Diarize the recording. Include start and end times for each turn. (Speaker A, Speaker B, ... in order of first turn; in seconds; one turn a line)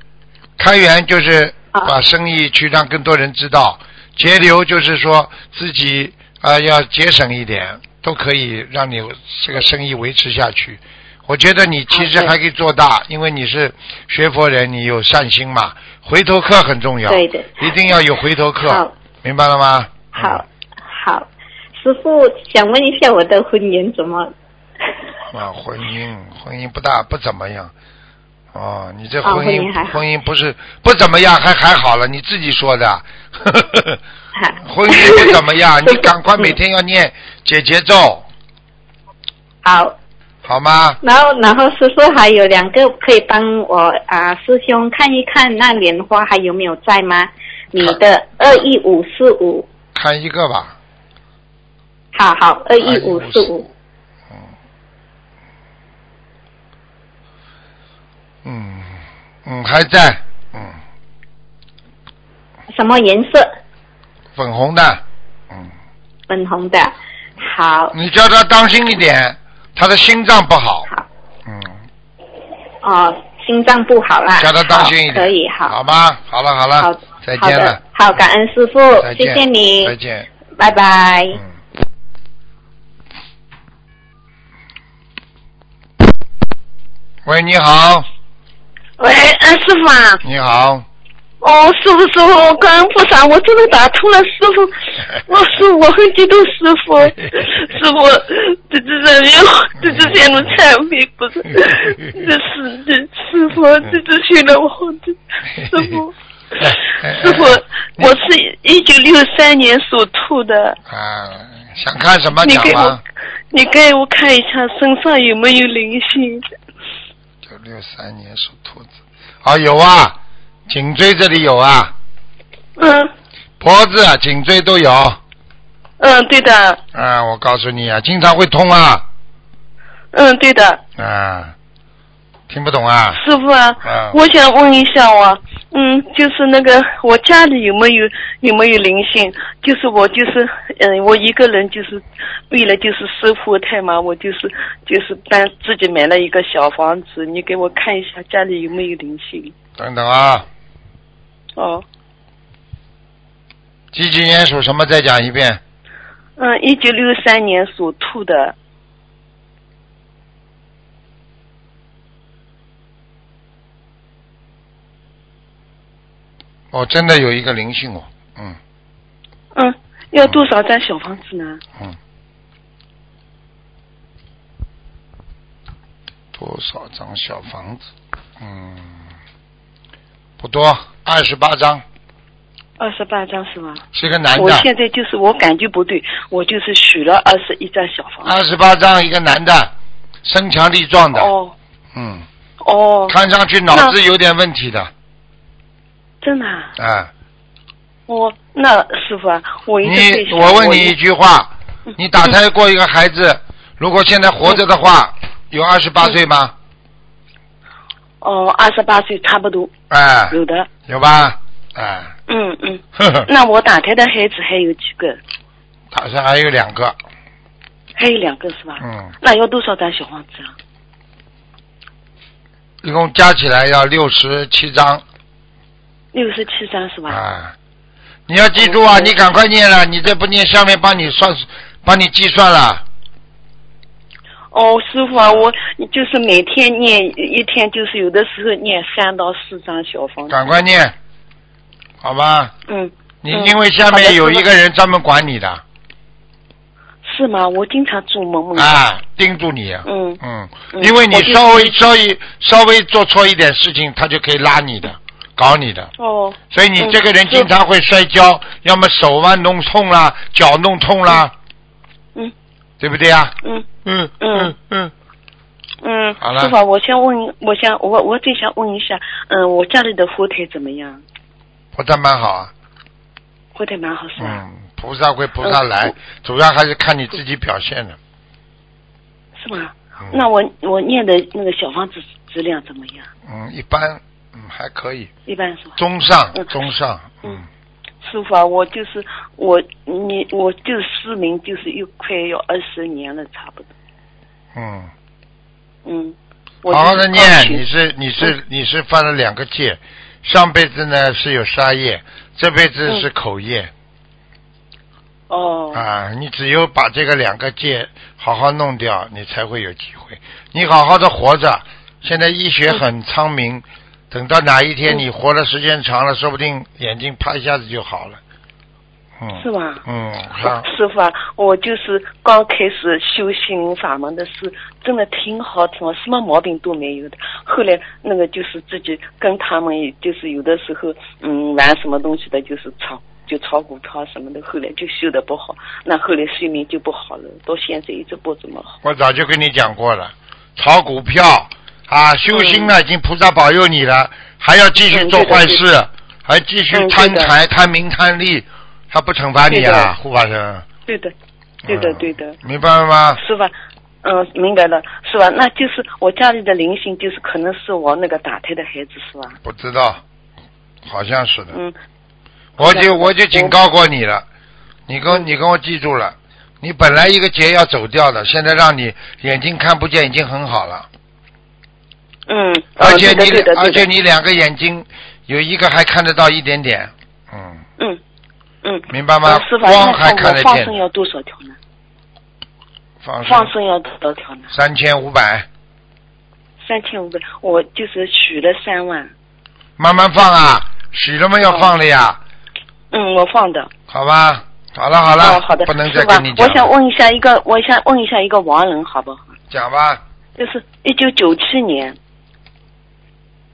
Speaker A: 0.6-20.4
Speaker B: 11.9-12.3
Speaker B: 17.1-17.6
Speaker B: 18.6-18.9
Speaker B: 20.1-24.3
Speaker A: 25.3-27.7
Speaker A: 28.5-34.0
Speaker B: 29.2-30.0
Speaker B: 34.4-36.5
Speaker A: 34.6-38.3
Speaker B: 39.6-40.0
Speaker A: 40.4-41.0
Speaker B: 41.0-49.7
Speaker A: 49.9-50.8
Speaker B: 52.1-53.6
Speaker A: 52.8-53.7
Speaker A: 58.4-60.8
Speaker B: 62.7-63.5
Speaker A: 64.3-65.7
Speaker B: 66.3-67.9
Speaker A: 67.9-70.9
Speaker A: 71.5-71.8
Speaker B: 72.8-75.7
Speaker A: 74.4-77.8
Speaker B: 76.8-79.9
Speaker A: 79.0-80.3
Speaker B: 80.6-81.4
Speaker A: 87.2-88.1
Speaker C: 89.0-90.2
Speaker A: 90.2-90.8
Speaker C: 91.4-110.8
Speaker A: 99.8-100.2
Speaker A: 105.5-106.0
Speaker A: 106.6-108.1
Speaker A: 110.9-113.0
Speaker C: 112.4-113.0
Speaker C: 113.5-116.4
Speaker A: 117.4-118.9
Speaker A: 119.4-120.2
Speaker A: 120.7-121.9
Speaker C: 122.8-123.1
Speaker A: 123.6-125.2
Speaker C: 126.0-126.8
Speaker A: 126.9-129.1
Speaker C: 130.1-130.8
Speaker A: 131.0-131.5
Speaker A: 132.5-133.2
Speaker C: 133.1-149.5
Speaker A: 133.8-134.2
Speaker A: 149.8-150.5
Speaker C: 151.6-151.8
Speaker A: 153.9-155.6
Speaker C: 156.4-158.5
Speaker A: 166.7-168.6
Speaker C: 169.5-171.6
Speaker A: 176.3-177.9
Speaker A: 178.4-179.1
Speaker A: 180.4-181.8
Speaker C: 182.8-183.8
Speaker A: 183.9-184.7
Speaker C: 184.3-188.3
Speaker A: 188.2-189.7
Speaker A: 190.2-191.3
Speaker C: 191.1-191.5
Speaker A: 191.9-192.2
Speaker C: 192.6-193.2
Speaker A: 193.1-194.9
Speaker C: 193.7-193.9
Speaker C: 196.2-196.7
Speaker A: 196.8-197.1
Speaker C: 198.1-200.9
Speaker A: 199.8-206.5
Speaker C: 208.2-209.7
Speaker A: 209.9-212.1
Speaker C: 210.3-210.7
Speaker C: 212.3-215.2
Speaker A: 213.0-213.3
Speaker A: 215.9-216.9
Speaker C: 217.9-220.5
Speaker A: 218.8-219.1
Speaker A: 222.8-225.0
Speaker C: 226.1-227.2
Speaker A: 227.1-227.6
Speaker A: 228.3-232.8
Speaker C: 228.6-229.2
Speaker C: 234.5-240.4
Speaker A: 240.3-240.9
Speaker A: 242.0-242.5
Speaker C: 242.7-244.4
Speaker A: 243.2-245.6
Speaker C: 247.0-248.8
Speaker A: 248.5-255.9
Speaker C: 249.8-250.2
Speaker C: 250.7-251.7
Speaker C: 256.0-257.5
Speaker A: 256.5-261.3
Speaker A: 262.8-264.9
Speaker C: 264.2-264.5
Speaker C: 265.8-271.0
Speaker A: 266.2-266.5
Speaker A: 271.7-272.5
Speaker C: 273.5-274.4
Speaker A: 274.2-278.0
Speaker C: 275.4-275.9
Speaker C: 279.4-283.1
Speaker A: 283.2-285.1
Speaker C: 285.3-285.8
Speaker A: 285.8-287.4
Speaker C: 288.0-293.7
Speaker A: 294.5-294.9
Speaker C: 295.8-297.6
Speaker A: 296.7-303.7
Speaker C: 305.3-305.8
Speaker A: 305.7-318.2
Speaker A: 319.2-320.7
Speaker C: 319.4-319.8
Speaker C: 320.4-338.7
Speaker A: 338.8-350.6
Speaker C: 342.3-342.7
Speaker C: 344.9-345.6
Speaker C: 346.7-347.3
Speaker C: 349.5-349.9
Speaker C: 350.9-351.1
Speaker C: 351.7-352.4
Speaker A: 351.7-353.2
Speaker C: 353.2-359.4
Speaker A: 359.4-360.0
Speaker A: 360.8-361.6
Speaker C: 362.6-363.5
Speaker A: 362.6-364.2
Speaker A: 364.9-370.9
Speaker C: 372.3-373.9
Speaker A: 372.8-377.6
Speaker C: 378.6-381.6
Speaker A: 378.9-380.8
Speaker A: 383.0-383.5
Speaker C: 383.2-384.5
Speaker A: 384.5-385.5
Speaker C: 386.6-389.1
Speaker A: 389.8-392.2
Speaker C: 392.9-393.7
Speaker A: 393.9-396.7
Speaker C: 395.2-399.2
Speaker A: 399.5-400.0
Speaker C: 400.4-402.0